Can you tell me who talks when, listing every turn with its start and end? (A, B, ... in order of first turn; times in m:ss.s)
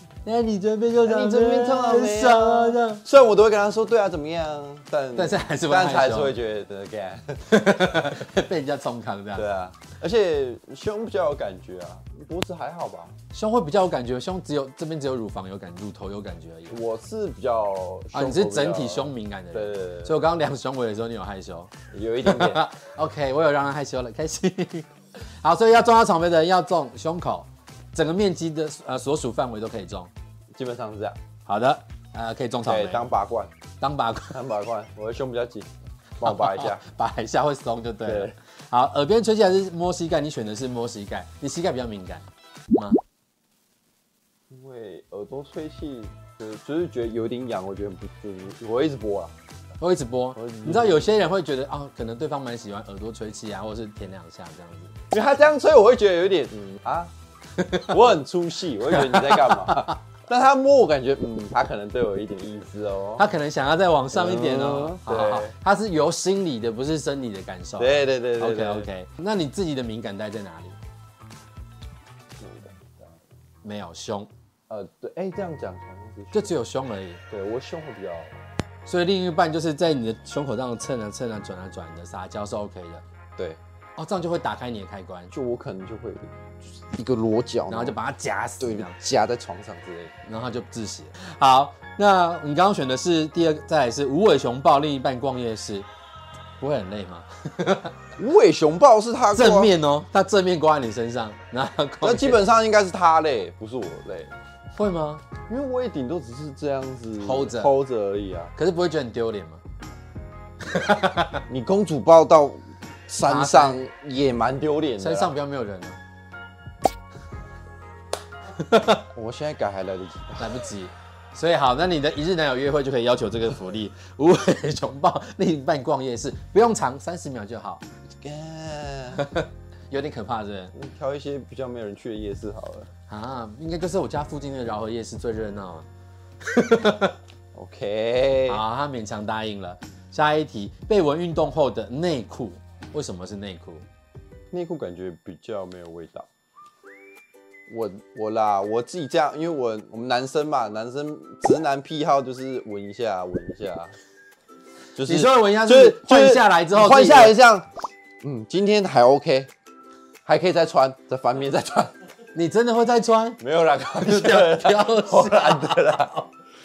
0:00.2-0:03.0 A
0:01.0-0:08.1 B
0:05.2-0:06.4 A
0:07.5-0:09.5 A
0:09.4-0:13.2 B
0:13.3-0:16.8 A
0:16.7-0:20.2 B
0:18.1-0:21.7 A
0:21.9-0:22.6 B
0:22.2-0:30.1 A
0:30.6-0:31.2 B
0:31.5-0:33.0 A
0:32.6-0:33.5 B
0:33.8-0:34.4 A
0:34.3-0:36.8 B
0:36.2-0:43.0 A
0:38.1-0:38.3 B
0:44.5-0:49.3 B
0:49.8-0:54.9 A
0:50.4-0:51.1 B
0:55.1-0:57.1 B
0:57.6-0:58.0 A
0:57.8-1:03.3 B
0:58.9-0:59.9 A
1:03.2-1:10.8 A
1:04.1-1:05.6 B
1:07.8-1:08.9 B
1:12.4-1:13.2 B
1:13.6-1:14.3 A
1:14.7-1:16.5 B
1:16.3-1:17.2 A
1:17.3-1:18.4 B
1:18.9-1:23.0 A
1:24.0-1:25.3 A
1:25.3-1:28.0 B
1:27.7-1:28.9 A
1:28.6-1:30.1 B
1:30.3-1:35.9 A
1:36.6-1:37.9 A
1:38.2-1:39.7 B
1:39.3-1:42.4 A
1:42.0-1:44.3 B
1:44.7-1:45.2 A
1:45.5-1:48.5 B
1:47.2-1:47.7 A
1:48.6-1:49.6 A
1:50.6-1:51.4 A
1:51.5-1:55.3 B
1:53.2-1:53.8 A
1:55.0-1:56.0 A
1:58.6-1:59.1 A
1:59.1-2:00.6 B
2:00.4-2:07.8 A
2:08.2-2:09.3 B
2:09.2-2:10.7 A
2:10.7-2:12.9 B
2:13.1-2:15.9 A
2:16.4-2:17.2 A
2:17.5-2:18.6 B
2:18.5-2:23.8 A
2:24.5-2:26.3 B
2:27.7-2:33.9 B
2:35.0-2:37.7 B
2:35.1-2:37.4 A
2:38.2-2:39.5 B
2:40.2-2:41.9 B
2:42.3-2:43.4 A
2:43.4-2:46.2 B
2:44.0-2:46.3 A